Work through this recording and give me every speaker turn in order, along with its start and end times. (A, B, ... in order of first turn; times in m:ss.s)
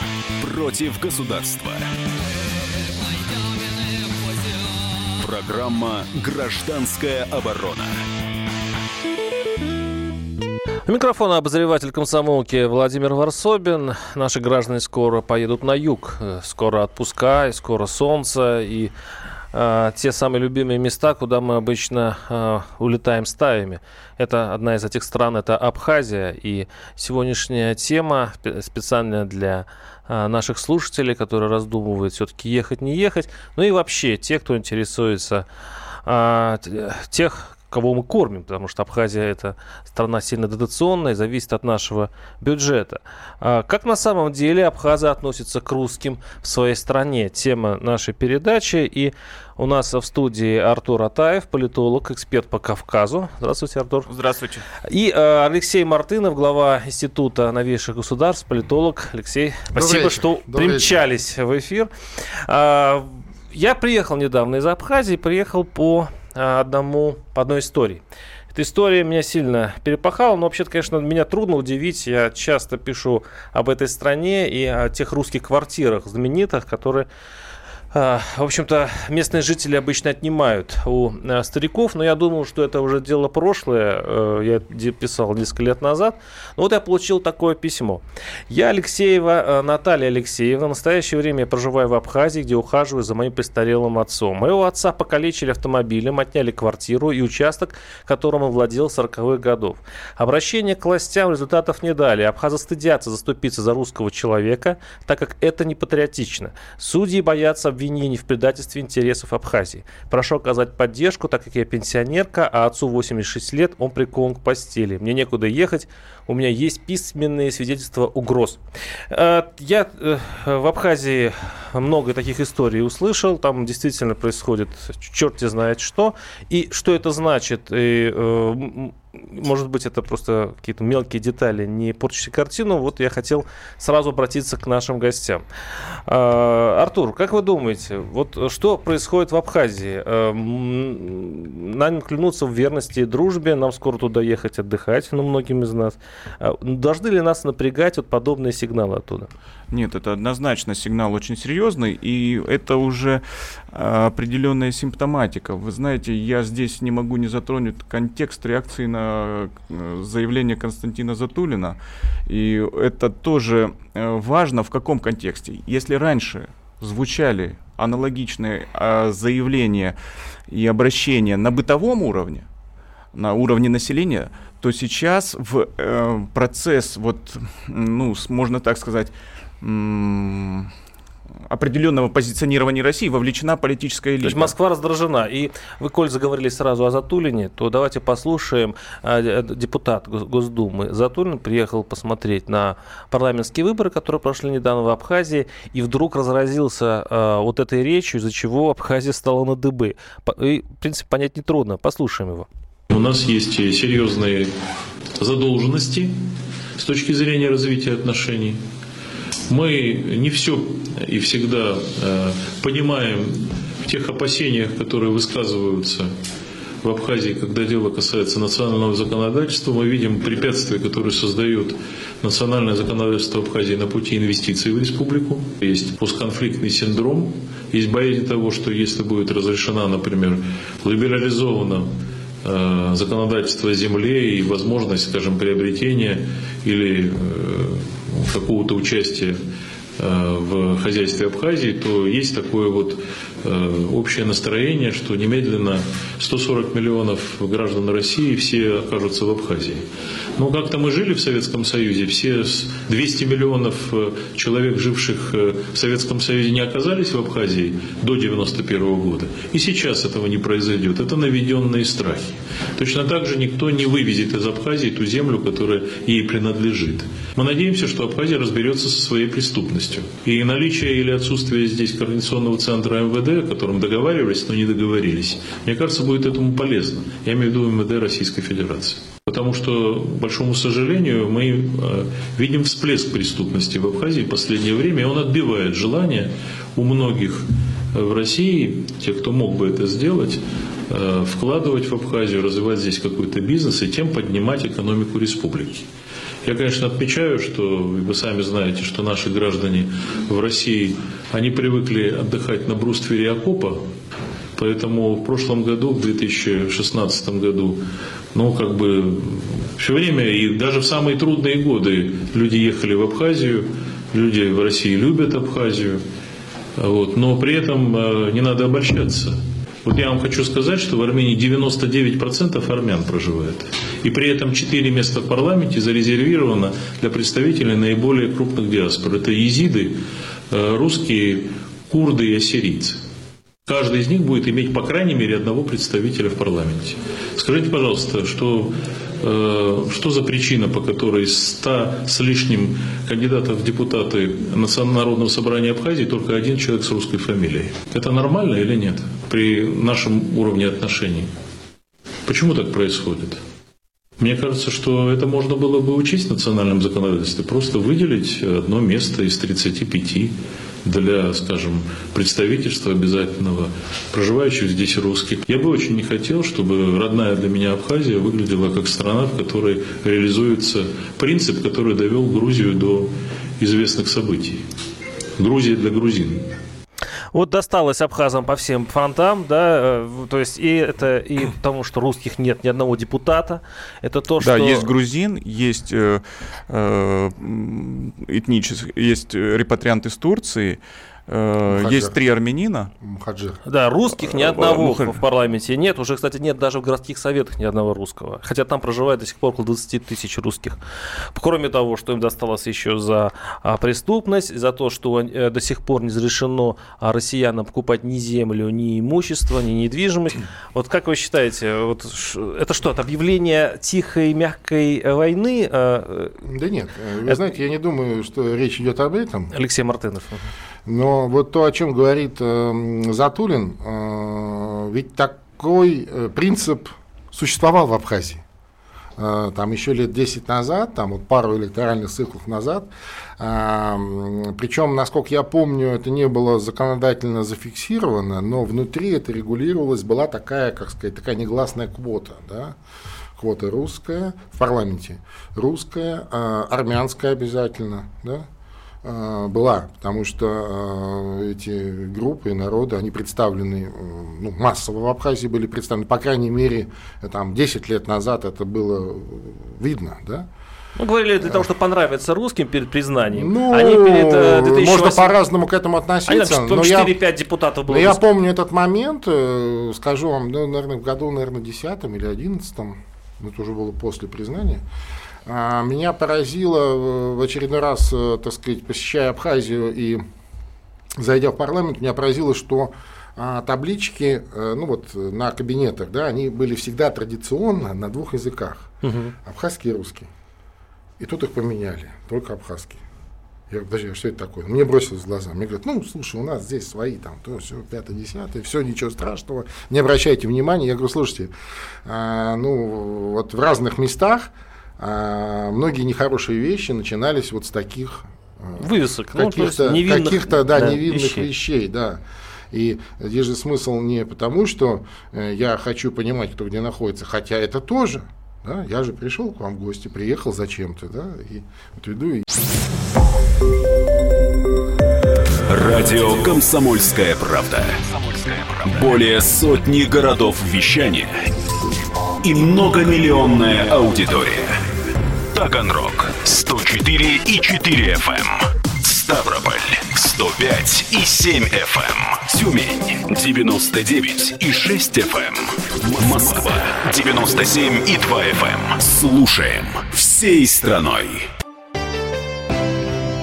0:00.4-0:01.9 A
0:05.2-0:08.0 A
0:10.9-0:18.9 B
0:19.5-0:35.5 B
0:36.0-0:54.1 B
0:54.1-0:54.7 C
0:54.8-1:17.1 B
0:59.7-1:01.0 D
1:17.9-2:15.4 B
2:16.1-2:29.3 B
2:29.7-2:50.0 C
2:50.5-2:52.5 C
2:53.1-3:00.7 C
3:01.5-3:04.6 C
3:04.2-3:22.5 B
3:22.9-3:24.5 E
3:25.2-3:26.2 E
3:26.8-3:28.6 E
3:29.5-3:36.1 E
3:36.8-3:51.9 E
3:52.4-3:59.4 E
4:00.0-4:55.9 E
4:56.4-5:03.8 E
5:04.6-5:16.0 E
5:16.8-5:30.0 E
5:30.5-5:33.0 E
5:33.7-5:51.3 E
5:52.3-5:53.4 E
5:54.2-6:14.6 E
6:15.4-6:16.5 E
6:17.3-6:24.9 B
6:24.4-6:32.9 C
6:31.7-6:32.2 D
6:33.0-6:33.6 D
6:33.7-6:40.8 B
6:34.2-6:35.2 C
6:41.3-6:56.4 B
6:56.4-6:59.5 D
6:59.5-7:00.4 B
7:00.9-7:08.4 D
7:09.2-7:22.8 D
7:23.4-7:28.5 D
7:29.0-7:40.5 D
7:41.0-7:45.4 B
7:43.3-7:47.2 D
7:46.3-7:48.2 B
7:47.9-7:54.8 D
7:55.5-8:00.2 D
8:01.2-8:08.9 D
8:09.0-8:09.3 B
8:09.4-8:10.3 D
8:11.2-8:13.0 D
8:13.7-8:21.5 D
8:22.0-8:32.2 D
8:28.8-8:31.5 B
8:32.7-8:42.4 D
8:45.7-8:51.5 A
8:52.4-8:54.8 A
8:55.5-9:11.5 A